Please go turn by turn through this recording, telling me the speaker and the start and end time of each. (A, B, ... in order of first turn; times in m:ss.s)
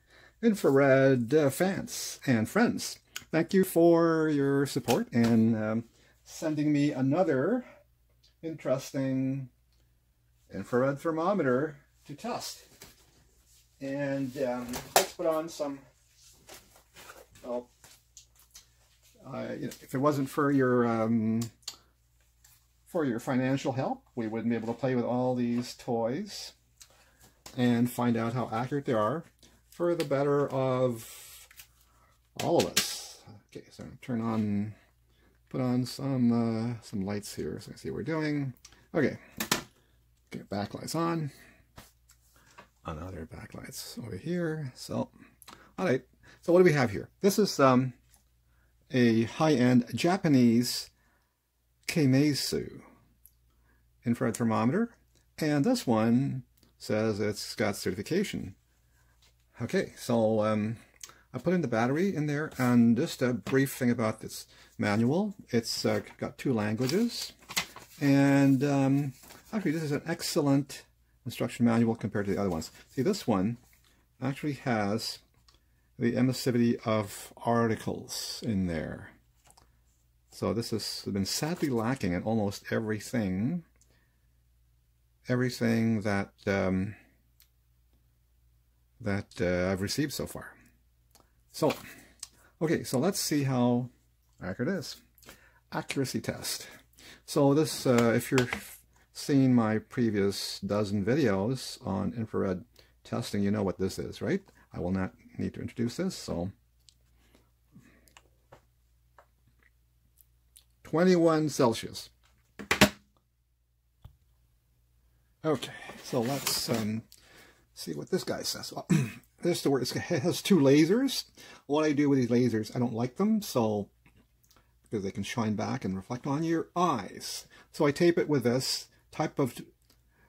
0:00.4-0:07.6 A
0:08.4-0:09.5 A
0:10.5-0:12.7 A
0:13.8-0:15.8 A
0:17.4-0:17.7 A
0:19.2-0:21.5 A
0:22.8-0:26.5 A
0:27.6-0:31.5 A
0:32.4-0:34.8 A
0:35.5-0:39.4 A
0:40.3-0:41.3 A
0:42.8-0:45.1 A
0:45.8-0:47.9 A
0:48.9-0:50.9 A
0:51.9-0:52.8 A
0:54.0-0:58.6 A
0:59.6-1:00.8 A
1:01.3-1:07.3 A
1:08.0-1:13.6 A
1:14.2-1:15.2 A
1:16.0-1:19.1 A
1:20.3-1:23.6 A
1:25.3-1:27.0 A
1:29.0-1:30.5 A
1:31.5-1:31.8 A
1:32.6-1:35.0 A
1:35.7-1:36.7 A
1:37.2-1:46.5 A
1:50.8-1:52.1 A
1:55.4-1:57.0 A
1:57.7-2:03.9 A
2:04.8-2:09.7 A